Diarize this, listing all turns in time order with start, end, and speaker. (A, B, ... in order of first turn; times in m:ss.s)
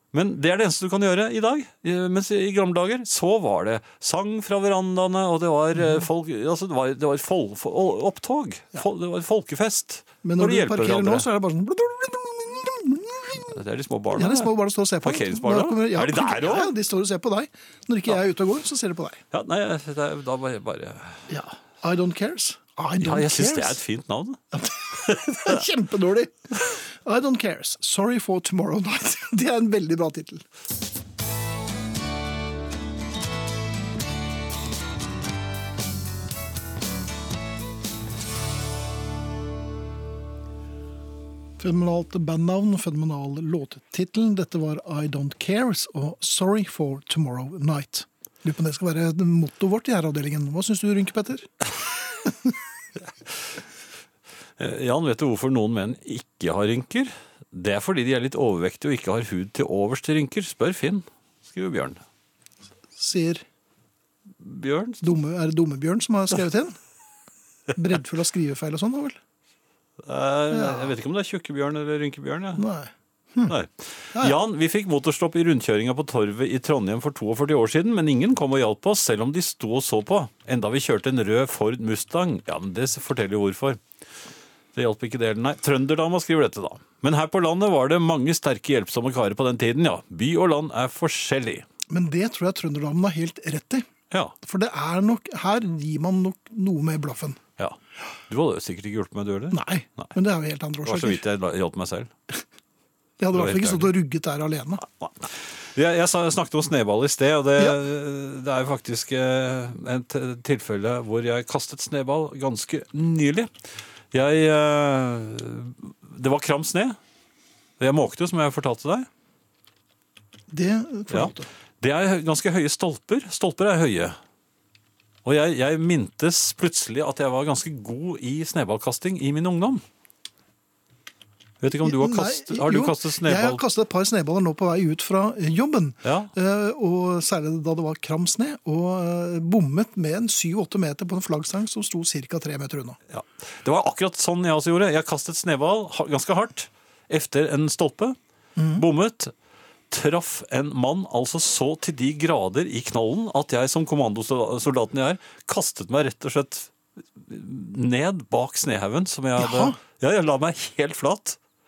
0:00.1-0:11.2 A
0:05.8-0:06.0 B
0:10.2-0:13.5 B
0:13.4-0:16.7 A
0:14.1-0:19.2 B
0:19.3-0:21.2 A
0:21.3-0:23.8 B
0:23.0-0:24.4 A
0:24.5-0:30.4 B
0:25.0-0:25.5 A
0:41.6-0:51.5 B
0:54.6-1:02.0 A
1:03.0-1:03.4 B
1:04.4-1:05.1 A
1:05.0-1:06.8 B
1:07.7-1:09.2 B
1:10.0-1:12.6 A
1:10.5-1:10.9 B
1:12.6-1:13.5 B
1:13.5-1:23.8 A
1:24.7-1:31.6 A
1:31.9-1:33.8 B
1:34.4-1:37.4 B
1:38.3-1:40.1 A
1:39.5-1:41.2 B
1:40.8-1:42.1 A
1:43.2-1:44.8 B
1:43.3-1:43.9 A
1:44.8-1:53.5 A
1:54.1-1:57.0 A
1:57.8-1:59.1 A
2:00.5-2:01.5 B
2:01.1-2:04.2 A
2:05.2-2:09.8 A
2:11.6-2:13.6 A
2:11.8-2:23.0 B
2:16.0-2:16.3 A
2:23.1-2:28.2 A
2:28.6-2:28.8 B
2:28.8-2:29.3 A
2:29.9-2:41.4 A
2:39.4-2:39.8 B